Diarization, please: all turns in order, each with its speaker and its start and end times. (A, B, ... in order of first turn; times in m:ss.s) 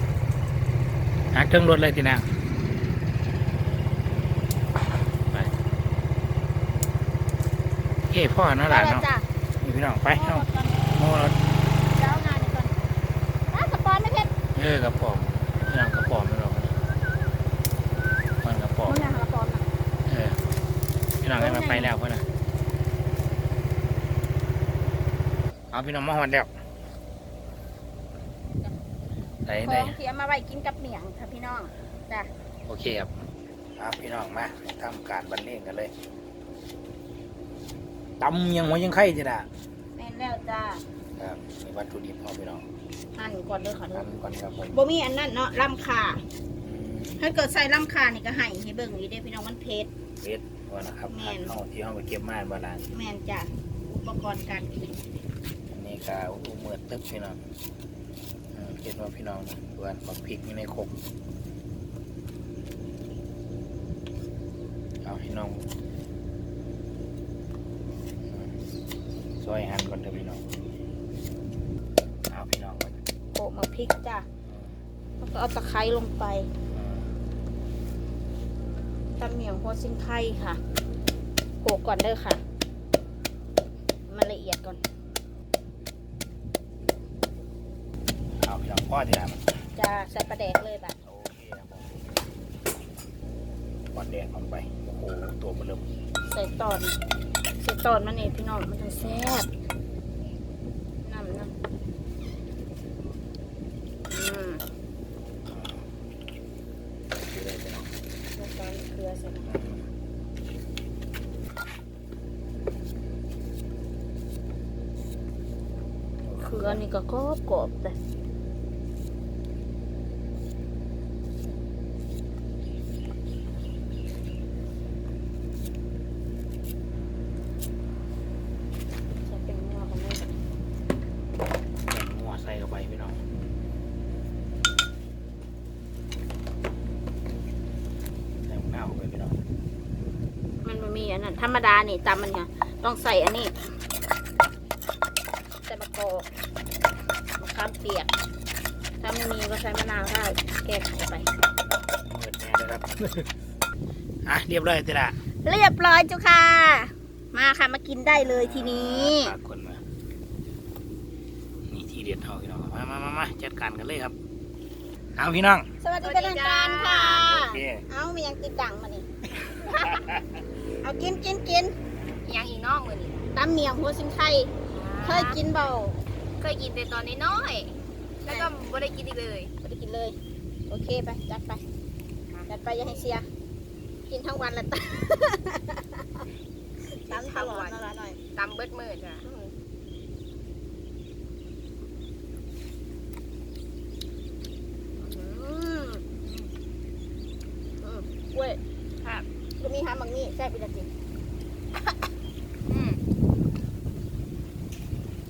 0:01.3-0:02.3 A
0:08.1-0:09.1 A
0:08.7-0:09.3 B
0:09.6-0:11.4 A
0:10.1-0:10.9 B
0:11.9-0:12.8 B
0:13.5-0:14.3 B
0:14.6-0:16.7 A
0:18.4-0:19.1 A
0:18.9-0:19.7 B
0:20.1-0:20.4 A
0:21.2-0:22.2 A
0:21.4-0:21.9 B
0:25.7-0:26.5 A
0:29.4-0:30.0 A
0:29.6-0:32.3 B
0:32.7-0:33.1 A
0:33.8-0:35.9 A
0:38.2-0:39.5 A
0:39.9-0:40.8 B
0:41.2-0:42.6 A
0:43.2-0:44.1 B
0:43.9-0:44.8 A
0:44.7-0:46.2 B
0:46.6-0:47.2 A
0:47.2-0:49.9 B
0:50.2-0:52.9 A
0:51.1-0:51.6 B
0:52.9-0:55.0 B
0:55.7-0:57.4 A
0:58.5-1:00.9 A
1:05.0-1:05.7 A
1:08.3-1:08.6 A
1:09.4-1:10.4 A
1:12.3-1:13.0 A
1:13.3-1:14.3 B
1:14.5-1:14.8 A
1:15.2-1:16.5 B
1:16.7-1:17.2 A
1:19.2-1:20.6 B
1:21.6-1:22.4 B
1:24.1-1:24.8 B
1:28.4-1:29.4 A
1:29.8-1:31.0 B
1:31.0-1:32.0 A
1:33.9-1:35.8 A
1:36.3-1:37.0 B
1:37.6-1:39.5 B
1:39.0-1:39.4 A
1:41.0-1:41.5 B
1:44.1-1:44.6 B
1:45.5-1:45.8 A
1:47.2-1:47.9 A
1:48.4-1:49.5 B
1:49.4-1:49.9 A
1:56.2-1:56.8 A
1:56.4-1:58.0 B
2:09.2-2:10.4 B
2:11.9-2:13.2 A
2:18.4-2:19.4 A
2:20.6-2:23.6 B
2:25.7-2:26.3 B
2:27.4-2:28.1 B
2:29.0-2:31.3 B
2:31.6-2:33.3 A
2:34.2-2:35.2 A
2:35.4-2:39.4 B
2:38.1-2:39.8 A
2:41.7-2:44.2 A
2:45.2-2:45.7 A
2:45.8-2:49.1 B
2:46.0-2:47.4 C
2:47.2-2:47.8 A
2:49.7-2:50.2 A
2:50.8-2:51.8 B
2:52.2-2:53.3 C
2:53.3-2:56.0 B
2:54.7-2:55.4 C
2:56.4-2:59.5 C
2:58.3-2:58.5 B
2:59.6-3:00.2 B
3:00.7-3:01.6 B
3:02.3-3:03.1 C
3:02.5-3:03.3 B
3:04.1-3:06.2 B
3:07.0-3:08.2 B
3:07.0-3:07.8 C
3:08.4-3:09.2 C
3:09.2-3:09.5 B
3:15.0-3:16.0 B
3:16.2-3:16.5 C
3:17.8-3:18.6 B
3:19.0-3:19.3 C
3:19.6-3:20.9 B
3:22.7-3:23.0 C